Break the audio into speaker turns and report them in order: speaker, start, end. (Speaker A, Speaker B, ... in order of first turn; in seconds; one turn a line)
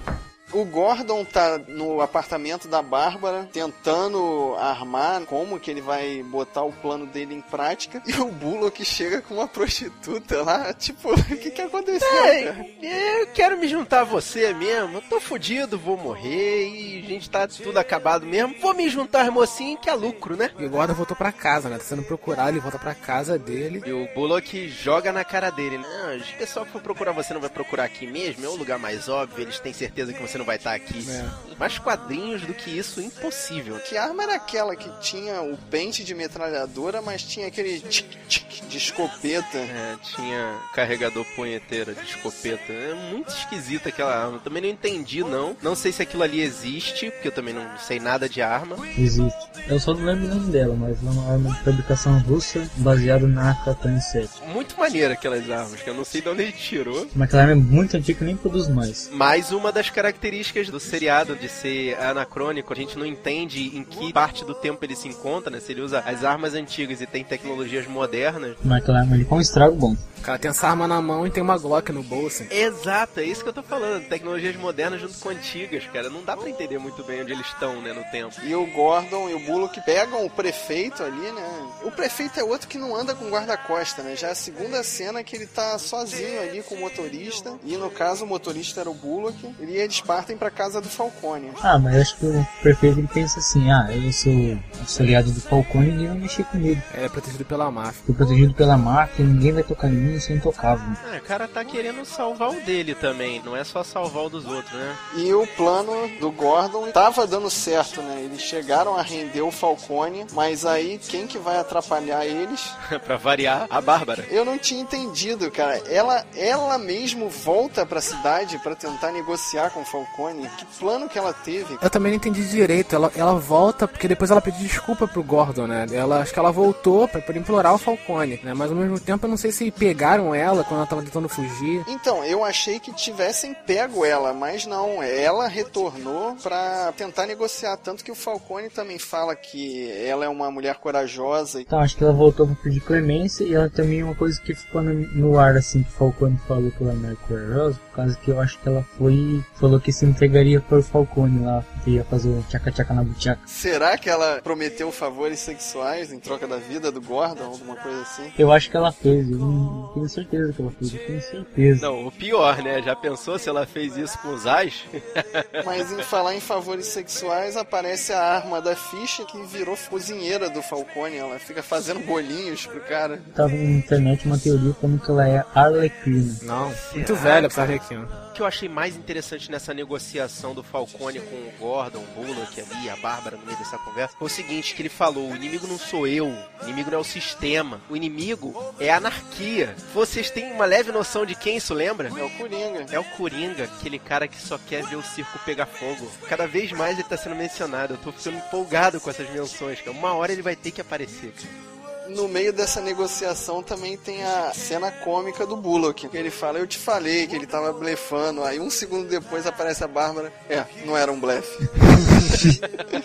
Speaker A: 0.5-12.6
Speaker B: 12.0-20.5
Speaker C: 20.6-23.9
Speaker B: 23.9-33.8
Speaker C: 31.0-31.4
Speaker A: 33.9-39.7
Speaker B: 39.7-48.8
Speaker D: 49.0-54.3
Speaker B: 54.4-57.1
Speaker D: 57.1-59.1
Speaker B: 59.1-68.6
Speaker D: 68.6-70.0
Speaker C: 70.2-72.5
Speaker B: 72.5-78.4
Speaker A: 78.4-91.6
Speaker D: 91.6-96.8
Speaker C: 96.9-98.0
Speaker D: 98.0-101.0
Speaker B: 101.0-105.0
Speaker A: 105.1-112.8
Speaker B: 112.9-114.3
Speaker A: 114.3-121.8
Speaker C: 121.8-131.9
Speaker A: 131.9-141.7
Speaker D: 141.7-153.4
Speaker A: 153.5-158.3
Speaker D: 158.4-161.9
Speaker B: 161.8-165.6
Speaker A: 165.6-173.3
Speaker D: 173.3-176.4
Speaker C: 176.4-178.1
Speaker B: 176.8-177.8
Speaker B: 178.3-192.2
Speaker A: 192.1-192.9
Speaker B: 192.9-201.5
Speaker A: 202.1-212.6